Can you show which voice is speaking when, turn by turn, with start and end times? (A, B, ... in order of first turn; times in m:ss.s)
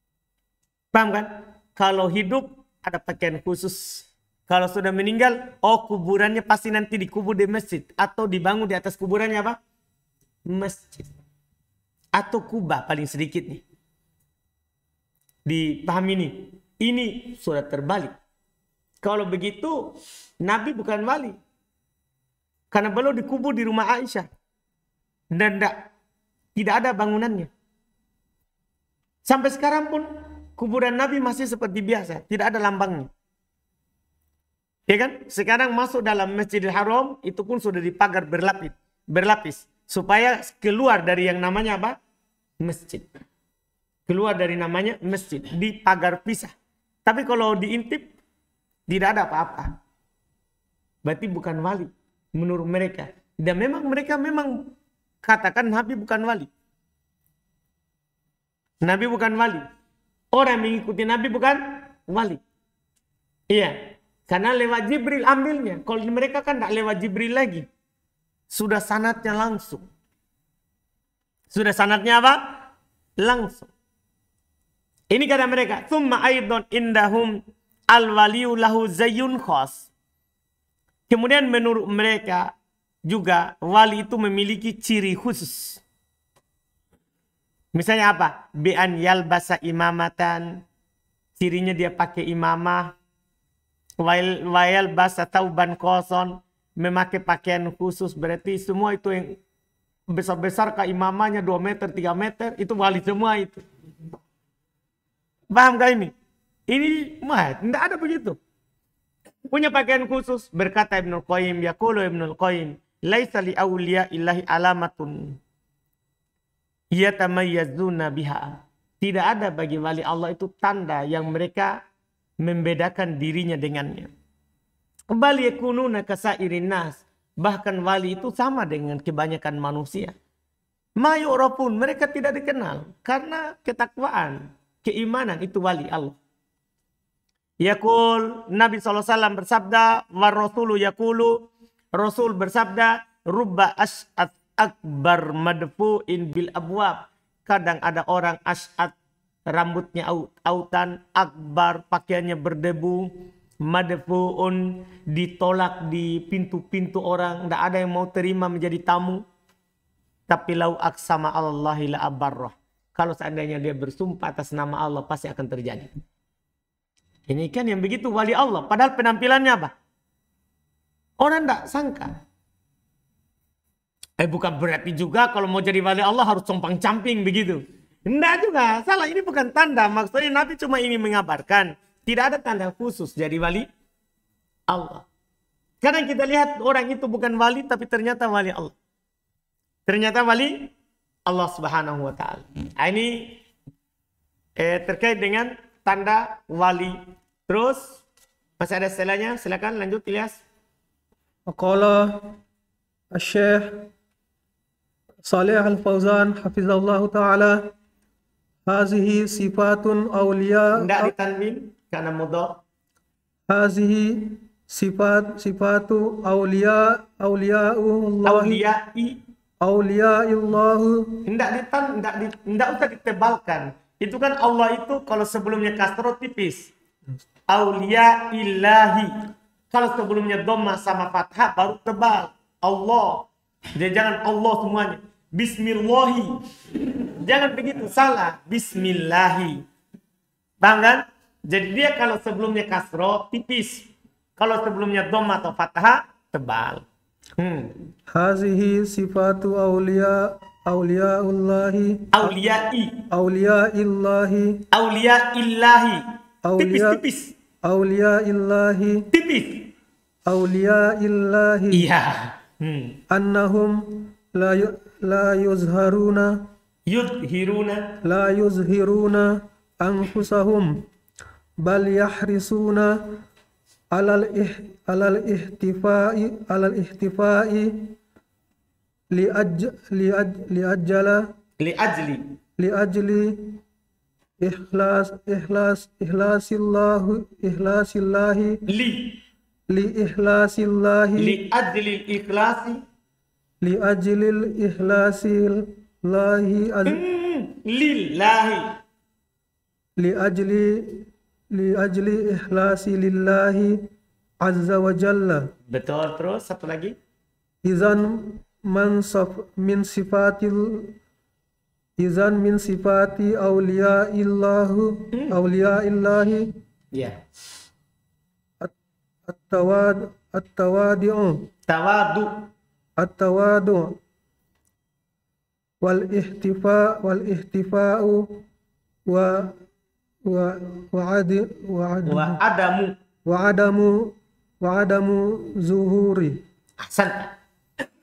0:00.9-0:09.6 A
0:10.5-0:11.1 A
0:12.2-0:13.6 A
0:15.4-0:18.1 A
0:19.0-0:19.9 A
0:20.4-0:21.4 A
0:22.7-0:24.3 A
0:25.3-0:25.8 A
0:26.5-0:27.5 A
0:29.2-0:33.1 A
0:34.9-0:42.0 A
0:42.6-0:43.1 A
0:44.1-0:46.5 A
0:47.0-0:48.1 A
0:48.9-0:49.7 A
0:51.0-0:56.5 A
0:58.8-0:59.6 A
1:00.3-1:02.4 A
1:03.5-1:03.8 A
1:04.3-1:07.7 A
1:08.5-1:09.8 A
1:11.5-1:12.4 A
1:13.2-1:13.7 A
1:15.1-1:17.4 A
1:17.9-1:19.9 A
1:21.1-1:22.5 A
1:23.0-1:25.8 A
1:27.7-1:30.6 A
1:31.4-1:32.9 A
1:34.0-1:39.4 A
1:40.1-1:43.6 A
1:45.5-1:46.1 A
1:46.7-1:48.4 A
1:49.5-1:55.4 A
1:56.9-2:01.8 A
2:02.4-2:04.1 A
2:05.1-2:10.1 A
2:11.0-2:16.2 A
2:17.6-2:28.9 A
2:29.5-2:33.1 A
2:33.6-2:39.2 A
2:40.3-2:45.9 A
2:47.3-2:49.7 A
2:51.2-2:52.1 A
2:54.2-3:03.7 A
3:04.7-3:05.0 A
3:05.8-3:08.7 A
3:09.9-3:10.7 A
3:11.2-3:13.4 A
3:14.6-3:18.0 A
3:18.6-3:20.4 A
3:21.5-3:22.3 B
3:23.1-3:23.9 B
3:25.2-3:27.7 B
3:28.6-3:31.1 B
3:30.7-3:32.6 A
3:33.5-3:38.6 B
3:38.2-3:39.2 A
3:39.6-3:41.2 B
3:41.2-3:46.7 A
3:47.5-3:49.1 A
3:49.7-3:59.6 A
4:00.6-4:06.8 A
4:07.4-4:07.8 A
4:08.1-4:12.4 B
4:12.1-4:13.0 A
4:13.1-4:14.6 B
4:14.7-4:16.0 A
4:16.4-4:17.0 B
4:16.6-4:17.3 A
4:17.6-4:19.1 B
4:19.1-4:19.7 A
4:20.3-4:21.9 B
4:21.7-4:23.0 A
4:23.1-4:26.4 B
4:26.9-4:27.9 A
4:28.0-4:30.7 B
4:31.6-4:33.0 B
4:33.9-4:37.9 B
4:39.1-4:41.3 B
4:41.6-4:42.3 A
4:42.6-4:43.6 B
4:44.4-4:48.6 B
4:48.7-4:49.2 A
4:49.7-4:51.4 B
4:51.2-4:52.8 A
4:53.6-4:57.0 B
4:56.8-4:58.8 A
5:00.0-5:03.9 B
5:04.4-5:05.5 B
5:05.7-5:06.9 A
5:07.6-5:11.0 B
5:12.0-5:16.5 B
5:15.1-5:15.4 A
5:19.2-5:21.5 B
5:21.7-5:22.4 A
5:23.0-5:24.0 B
5:25.8-5:28.4 B
5:29.1-5:29.6 B
5:30.2-5:32.4 B
5:32.0-5:32.9 A
5:33.2-5:36.4 B
5:36.8-5:37.3 A